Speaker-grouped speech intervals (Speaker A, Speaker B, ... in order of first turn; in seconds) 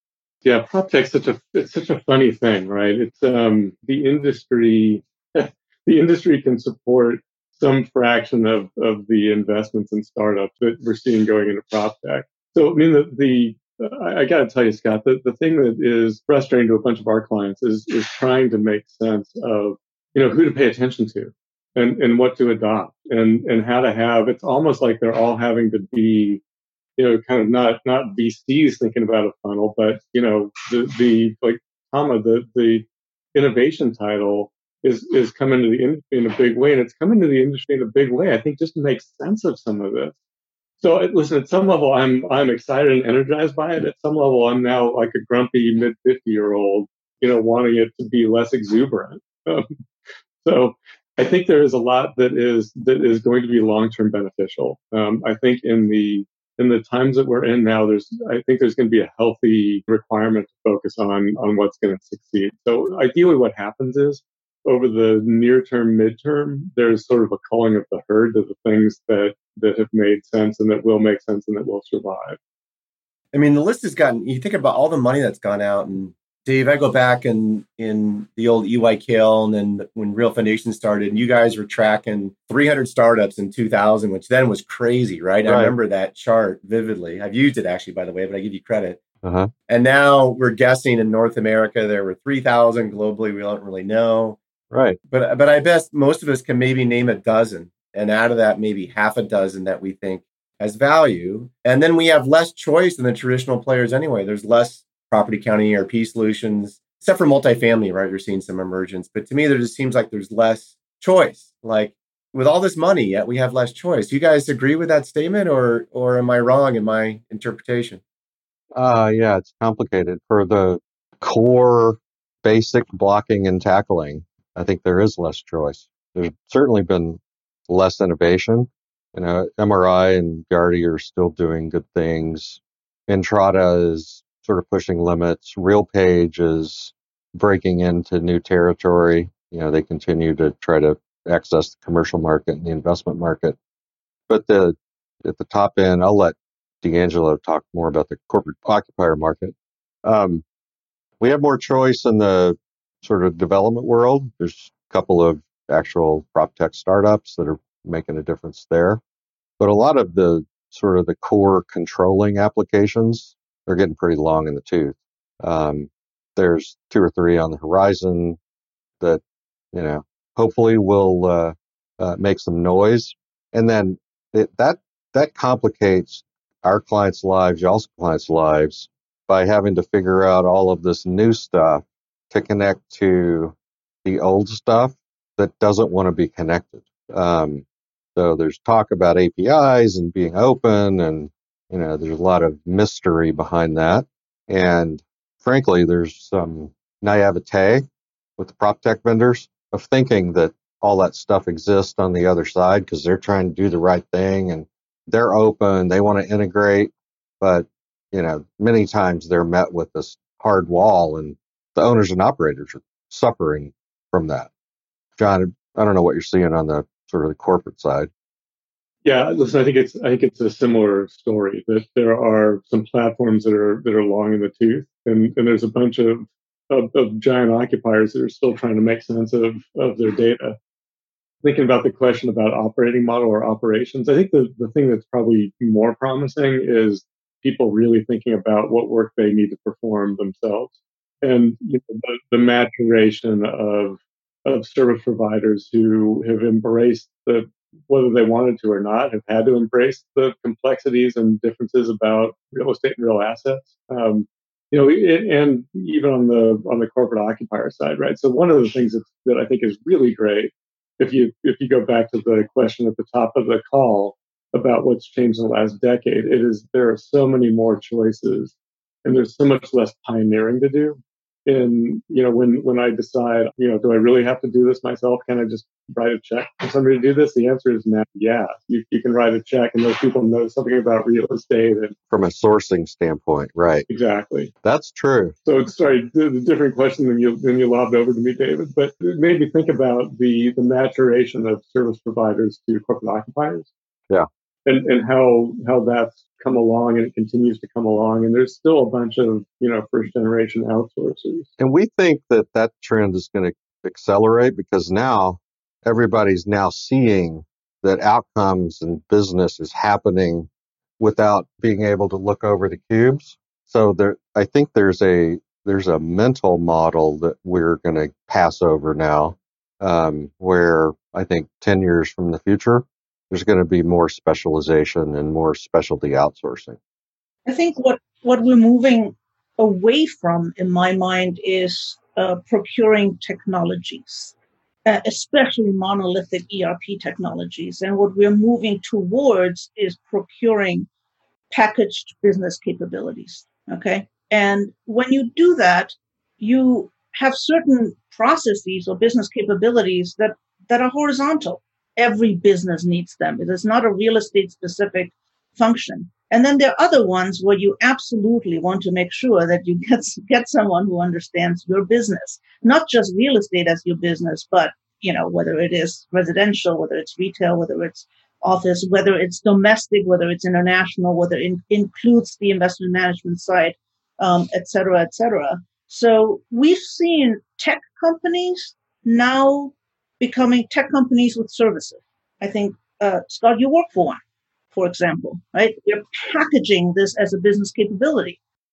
Speaker A: 0.4-26.4, 27.0-40.1, 40.8-49.7, 50.4-72.4, 219.0-230.6, 231.4-281.9, 283.9-284.5, 285.4-293.7, 294.6-301.5
Speaker B: 73.3-89.0, 89.7-94.4, 95.1-118.0
Speaker C: 85.5-85.7, 89.2-89.5, 94.7-95.0, 118.7-143.6, 144.3-150.4, 151.2-159.0, 159.6-168.4, 169.7-187.6, 188.2-197.8, 198.4-214.5, 215.2-218.1, 282.1-283.9, 284.6-285.3, 301.6-310.5, 311.0-326.8
Speaker D: 327.4-334.3, 334.9-340.9, 341.5-384.2, 384.7-388.4